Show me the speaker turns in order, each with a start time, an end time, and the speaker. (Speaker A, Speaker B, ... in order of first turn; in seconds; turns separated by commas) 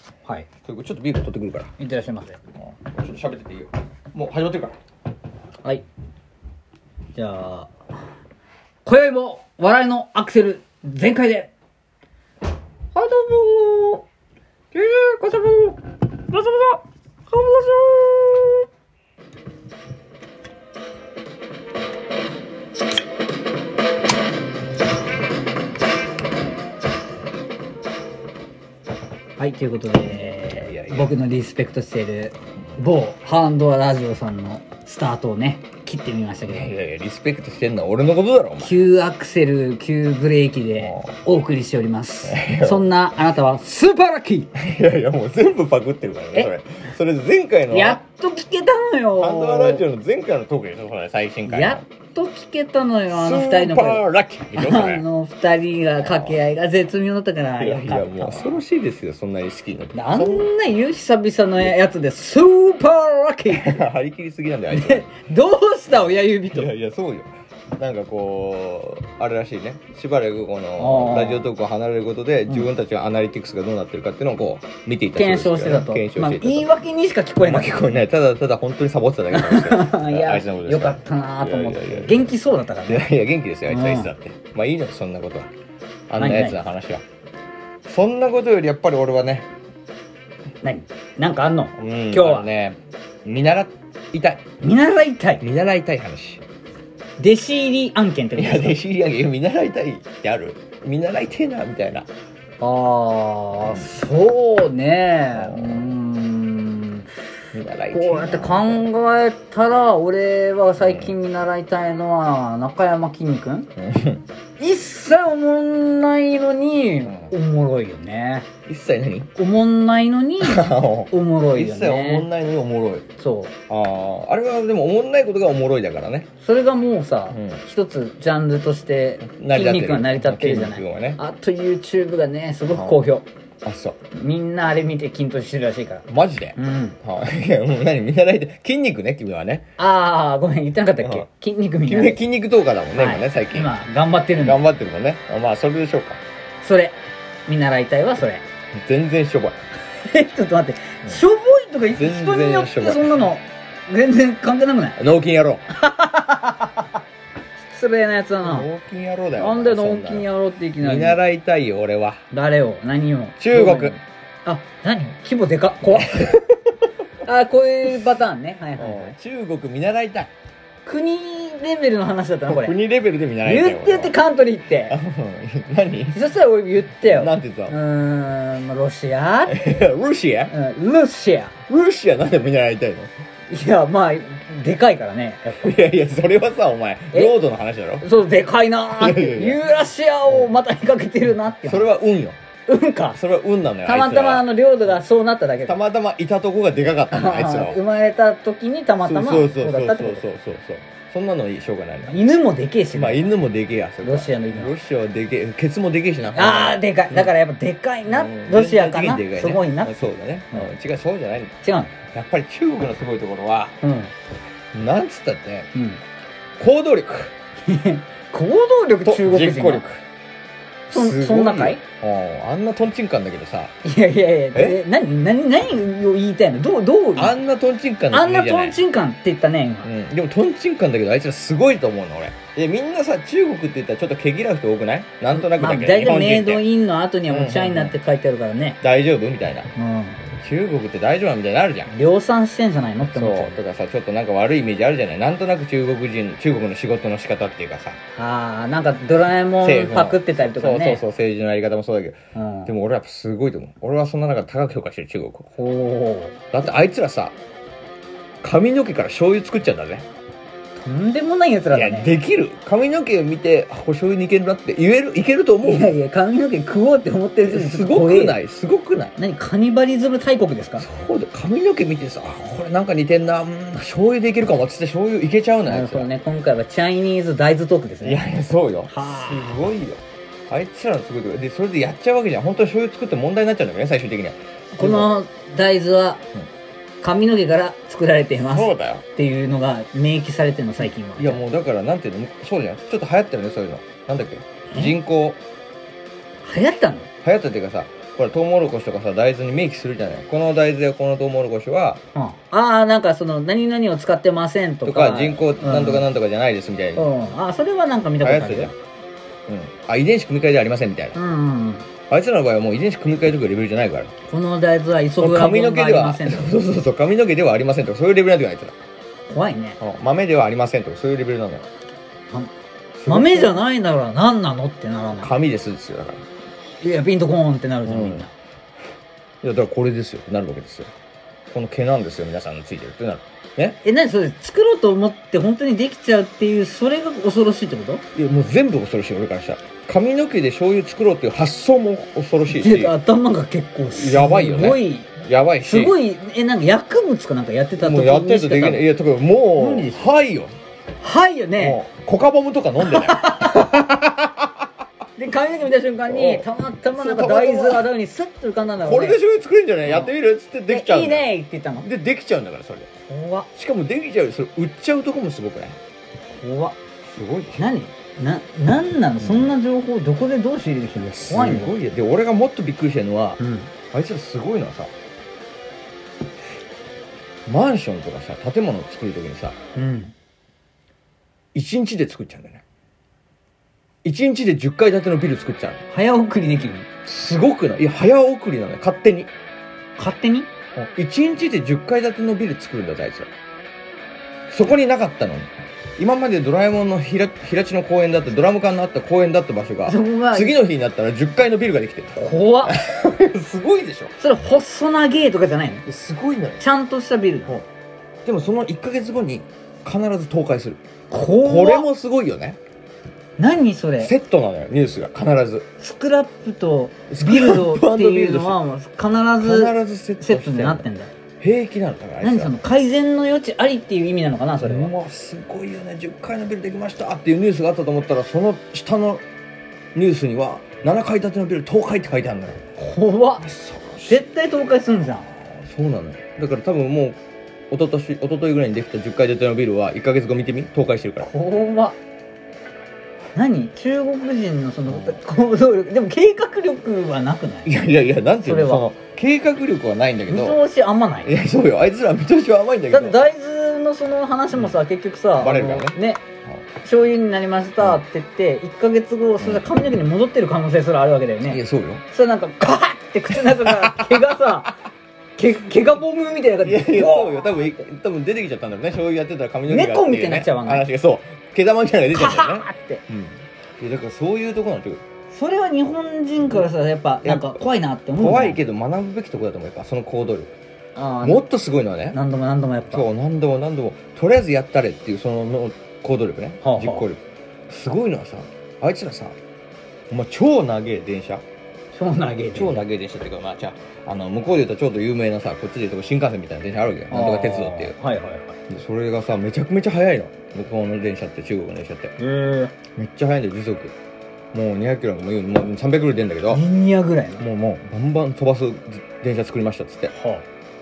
Speaker A: 0.6-1.7, Speaker B: 1.8-2.4, Speaker A: 2.6-4.7, Speaker B: 7.1-7.7, Speaker B: 8.8-11.5, Speaker B: 12.9-14.0, Speaker B: 14.7-15.8, Speaker B: 16.3-18.6, Speaker B: 29.4-36.7, Speaker A: 30.6-31.2, Speaker A: 36.5-38.8, Speaker B: 38.6-44.5, Speaker A: 40.8-41.2, Speaker A: 42.2-42.9, Speaker A: 44.5-48.0, Speaker B: 47.7-49.9, Speaker A: 49.2-51.8, Speaker B: 51.4-58.6, Speaker A: 53.1-55.0, Speaker A: 56.0-56.4, Speaker A: 57.6-60.5, Speaker B: 59.9-63.8, Speaker A: 63.5-65.1, Speaker B: 64.7-66.7, Speaker A: 66.5-76.7, Speaker B: 70.8-71.5, Speaker B: 75.1-77.9, Speaker A: 77.4-85.5, Speaker B: 79.3-83.1, Speaker B: 83.7-84.1, Speaker A: 86.1-87.0, Speaker B: 86.2-86.6, Speaker A: 87.8-89.5, Speaker B: 90.6-92.5, Speaker A: 91.8-94.5, Speaker B: 94.6-95.4, Speaker A: 95.4-96.4, Speaker B: 97.2-98.8, Speaker A: 98.3-102.1, Speaker B: 102.6-107.1, Speaker A: 105.3-105.8, Speaker A: 107.5-108.9, Speaker B: 107.9-113.7, Speaker A: 110.8-111.1, Speaker A: 113.8-114.2, Speaker B: 114.6-118.5, Speaker A: 117.0-117.3, Speaker A: 118.7-119.3, Speaker B: 119.3-122.3, Speaker A: 120.4-123.0, Speaker B: 123.2-123.5, Speaker A: 123.7-126.3, Speaker B: 126.4-133.2, Speaker A: 127.3-127.6, Speaker A: 129.2-131.2, Speaker A: 132.7-133.0, Speaker A: 133.6-134.0, Speaker B: 134.1-137.0, Speaker A: 136.1-139.7, Speaker B: 139.8-142.2, Speaker A: 141.0-141.3, Speaker A: 141.8-143.7, Speaker B: 142.9-144.6, Speaker A: 144.4-146.2, Speaker B: 146.6-148.4, Speaker A: 148.7-149.6, Speaker B: 150.0-155.0, Speaker A: 151.9-153.3, Speaker A: 155.0-155.6, Speaker B: 155.7-156.9, Speaker B: 157.6-158.7, Speaker A: 158.4-160.3, Speaker B: 159.4-161.2, Speaker A: 160.8-162.2, Speaker B: 162.3-166.4, Speaker A: 163.4-163.9, Speaker A: 165.9-166.4, Speaker B: 167.2-169.2, Speaker A: 168.8-170.3, Speaker B: 170.8-172.8, Speaker A: 172.5-174.2, Speaker B: 173.4-175.0, Speaker A: 174.9-176.2, Speaker B: 176.1-179.8, Speaker A: 177.0-177.8, Speaker A: 179.5-180.5, Speaker B: 180.5-181.5, Speaker A: 181.7-183.1, Speaker B: 183.5-185.8, Speaker A: 185.5-188.1, Speaker B: 188.0-191.9, Speaker A: 188.9-189.6, Speaker A: 191.6-192.4, Speaker B: 192.7-193.2, Speaker A: 193.1-194.5, Speaker B: 193.8-195.8, Speaker A: 195.6-197.8, Speaker B: 197.1-200.2, Speaker A: 199.0-202.2, Speaker B: 202.1-203.3, Speaker A: 202.9-207.2, Speaker B: 204.0-204.7, Speaker B: 206.3-210.7, Speaker A: 208.1-211.5, Speaker B: 211.6-211.9, Speaker A: 212.1-213.8, Speaker B: 213.8-214.1, Speaker A: 214.7-215.7, Speaker B: 215.7-216.0, Speaker A: 216.6-217.3, Speaker B: 217.7-219.8, Speaker A: 219.0-220.0, Speaker B: 220.9-221.8, Speaker A: 220.9-223.7, Speaker B: 223.8-227.4, Speaker A: 224.5-224.8, Speaker A: 227.2-228.8, Speaker B: 228.1-229.9, Speaker A: 229.8-236.6, Speaker B: 235.3-238.8, Speaker A: 237.3-237.9, Speaker A: 238.8-239.7, Speaker B: 239.8-240.2, Speaker A: 240.3-241.9, Speaker B: 241.9-243.6, Speaker A: 243.1-248.0, Speaker B: 248.2-251.0, Speaker A: 249.6-255.5, Speaker B: 252.3-252.7, Speaker B: 255.6-256.4, Speaker A: 256.5-257.3, Speaker A: 258.4-260.1, Speaker B: 260.8-262.1, Speaker A: 261.7-265.9, Speaker B: 265.6-268.4, Speaker A: 267.4-269.1, Speaker B: 269.2-270.9, Speaker A: 270.8-276.1, Speaker B: 275.6-278.2, Speaker A: 278.0-285.1, Speaker B: 278.9-279.6, Speaker B: 284.8-286.2, Speaker B: 287.0-291.4, Speaker A: 288.4-289.0, Speaker A: 291.1-295.4, Speaker B: 296.4-297.1, Speaker A: 297.2-302.0, Speaker B: 302.1-306.1, Speaker A: 304.8-307.1, Speaker B: 306.9-308.7, Speaker A: 308.2-308.7, Speaker A: 309.5-311.2, Speaker B: 311.1-311.9, Speaker A: 312.1-314.1, Speaker B: 314.3-316.6, Speaker A: 315.1-318.7, Speaker B: 319.3-319.8, Speaker A: 319.8-321.7, Speaker A: 323.0-323.6, Speaker B: 323.1-325.3, Speaker A: 325.2-326.2, Speaker B: 326.8-328.3, Speaker A: 327.8-328.3, Speaker A: 329.4-330.9, Speaker A: 331.5-333.8, Speaker B: 333.8-338.0, Speaker A: 338.1-342.9, Speaker B: 342.4-345.1, Speaker A: 343.9-346.0, Speaker B: 345.6-348.9, Speaker A: 347.8-350.5, Speaker B: 349.6-349.9, Speaker B: 351.0-351.8, Speaker A: 351.6-354.5, Speaker B: 352.8-354.0, Speaker B: 355.2-359.2, Speaker A: 356.1-357.8, Speaker A: 358.8-361.3, Speaker B: 359.8-360.1, Speaker B: 360.7-361.9, Speaker A: 361.8-362.9, Speaker B: 363.1-363.5, Speaker A: 363.5-365.8, Speaker B: 366.3-366.8, Speaker A: 367.0-367.7, Speaker B: 367.6-371.7, Speaker A: 369.2-369.5, Speaker A: 371.0-374.9, Speaker B: 373.4-373.7, Speaker A: 377.5-379.6, Speaker B: 379.7-380.1, Speaker A: 381.5-382.6, Speaker A: 384.0-385.8, Speaker B: 385.9-386.9, Speaker A: 387.0-389.3, Speaker B: 390.0-390.5, Speaker A: 390.8-393.3, Speaker A: 394.5-404.1, Speaker B: 399.9-400.6, Speaker B: 402.1-402.8, Speaker B: 404.2-405.8, Speaker A: 405.9-406.6, Speaker B: 406.6-407.6, Speaker A: 408.2-410.8, Speaker B: 411.1-411.9, Speaker A: 411.4-412.6, Speaker B: 413.4-414.1, Speaker A: 414.0-415.7, Speaker B: 415.8-421.1, Speaker A: 417.1-418.6, Speaker A: 419.4-420.9, Speaker A: 421.4-422.5, Speaker B: 422.2-424.9, Speaker A: 424.6-429.2, Speaker A: 429.9-432.6, Speaker B: 432.8-433.5, Speaker A: 433.4-434.2, Speaker B: 434.1-435.3, Speaker A: 435.3-437.2, Speaker A: 437.7-441.3, Speaker B: 441.2-442.0, Speaker B: 443.3-447.7, Speaker A: 444.9-445.2, Speaker A: 447.6-450.6, Speaker B: 448.4-448.9, Speaker B: 450.3-451.3, Speaker A: 451.2-453.2, Speaker B: 452.9-456.2, Speaker A: 455.4-456.6, Speaker B: 456.8-461.6, Speaker A: 459.4-459.7, Speaker A: 461.4-462.0, Speaker B: 462.1-464.8, Speaker A: 463.3-464.2, Speaker B: 465.4-467.6, Speaker A: 466.6-475.0, Speaker B: 469.7-470.9, Speaker B: 472.1-473.0, Speaker B: 475.3-478.6, Speaker A: 477.2-477.6, Speaker A: 478.1-480.5, Speaker B: 480.9-481.5, Speaker A: 481.2-482.2, Speaker B: 482.1-483.0, Speaker A: 482.9-489.4, Speaker B: 486.6-487.1, Speaker A: 490.1-491.4, Speaker B: 491.9-492.8, Speaker A: 492.5-498.0, Speaker B: 497.1-498.6, Speaker A: 498.7-502.1, Speaker B: 502.2-502.7, Speaker A: 502.9-503.9, Speaker A: 504.5-506.6, Speaker B: 506.5-507.4, Speaker A: 507.4-510.1, Speaker B: 510.1-510.4